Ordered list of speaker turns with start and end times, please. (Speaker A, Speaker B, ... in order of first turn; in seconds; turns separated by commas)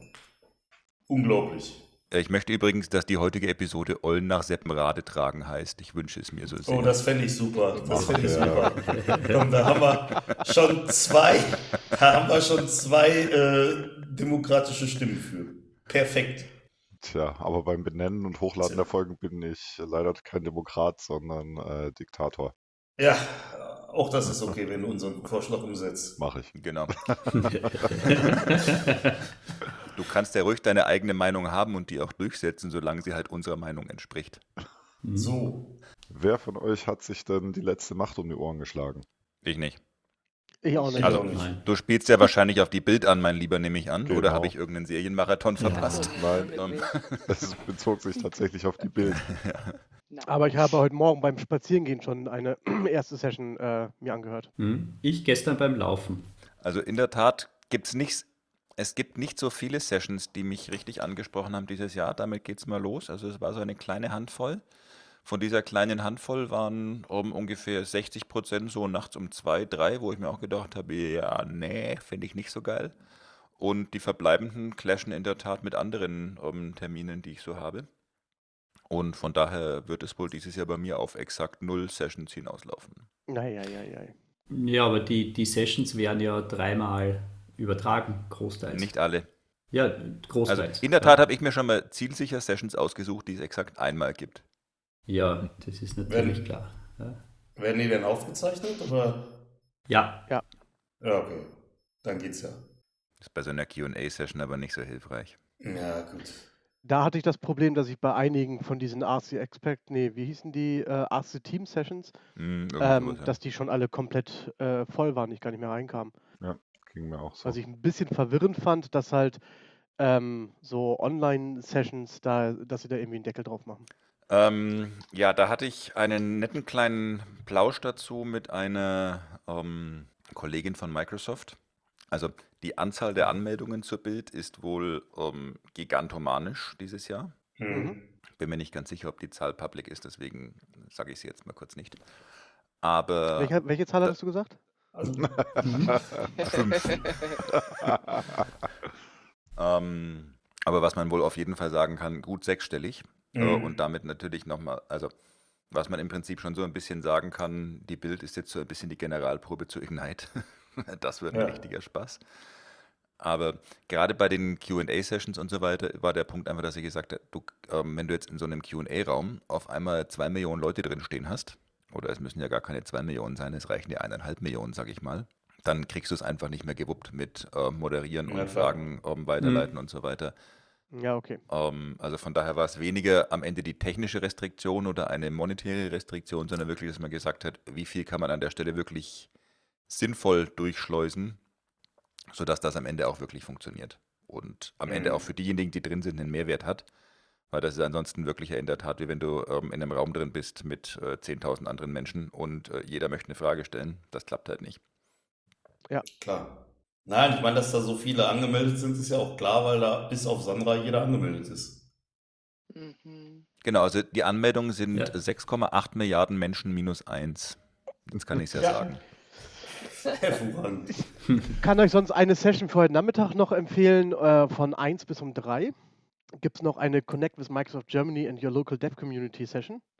Speaker A: 1.1-1.8, Speaker B: 2.1-7.0, Speaker A: 6.7-16.5, Speaker C: 7.8-8.8, Speaker D: 8.0-9.5, Speaker C: 17.0-22.5, Speaker A: 23.0-26.2, Speaker C: 26.2-28.4, Speaker B: 26.5-26.9, Speaker D: 27.3-29.1, Speaker B: 28.1-28.5, Speaker B: 29.9-34.4, Speaker D: 35.0-35.4, Speaker A: 35.1-35.7, Speaker C: 36.1-39.0, Speaker B: 39.4-39.8, Speaker E: 40.6-41.2, Speaker A: 41.0-41.5, Speaker B: 41.0-47.2, Speaker D: 41.1-41.6, Speaker C: 44.0-44.5, Speaker D: 45.6-46.1, Speaker F: 45.8-47.1, Speaker C: 46.1-46.6, Speaker C: 47.2-49.2, Speaker B: 49.1-49.8, Speaker F: 50.1-50.5, Speaker E: 50.2-54.5, Speaker D: 54.6-56.3, Speaker B: 56.6-58.3, Speaker B: 58.8-64.6, Speaker B: 65.2-73.0, Speaker B: 73.6-77.9, Speaker B: 78.9-83.0, Speaker E: 83.3-84.1, Speaker D: 84.5-88.9, Speaker B: 88.7-89.3, Speaker D: 89.7-91.2, Speaker B: 90.5-94.4, Speaker D: 95.1-97.2, Speaker A: 96.1-96.5, Speaker A: 97.6-99.3, Speaker D: 99.9-100.2, Speaker A: 101.0-101.5, Speaker A: 102.0-102.6, Speaker B: 103.2-105.3, Speaker A: 105.6-106.5, Speaker E: 106.8-112.1, Speaker B: 112.3-113.3, Speaker E: 112.8-116.1, Speaker C: 116.4-117.6, Speaker E: 117.4-119.4, Speaker E: 120.0-123.9, Speaker B: 124.3-131.6, Speaker B: 132.1-137.3, Speaker A: 137.6-138.0, Speaker E: 137.7-137.9, Speaker B: 138.4-142.0, Speaker B: 142.8-143.5, Speaker E: 143.3-144.6, Speaker A: 144.9-145.9, Speaker D: 145.6-146.0, Speaker C: 146.4-146.9, Speaker F: 146.4-147.4, Speaker B: 146.5-146.8, Speaker C: 147.5-148.4, Speaker B: 149.6-155.1, Speaker A: 153.3-153.8, Speaker B: 155.7-162.2, Speaker A: 161.3-161.6, Speaker B: 163.2-180.3, Speaker A: 178.3-178.8, Speaker D: 179.4-179.7, Speaker E: 180.9-181.4, Speaker B: 181.5-189.3, Speaker B: 189.9-191.4, Speaker B: 192.3-196.8, Speaker A: 194.8-195.3, Speaker B: 197.5-204.8, Speaker A: 206.2-211.8, Speaker F: 212.7-213.4, Speaker B: 213.6-217.6, Speaker B: 218.1-219.0, Speaker A: 218.6-218.9, Speaker A: 220.0-221.1, Speaker E: 221.6-225.7, Speaker E: 226.4-229.8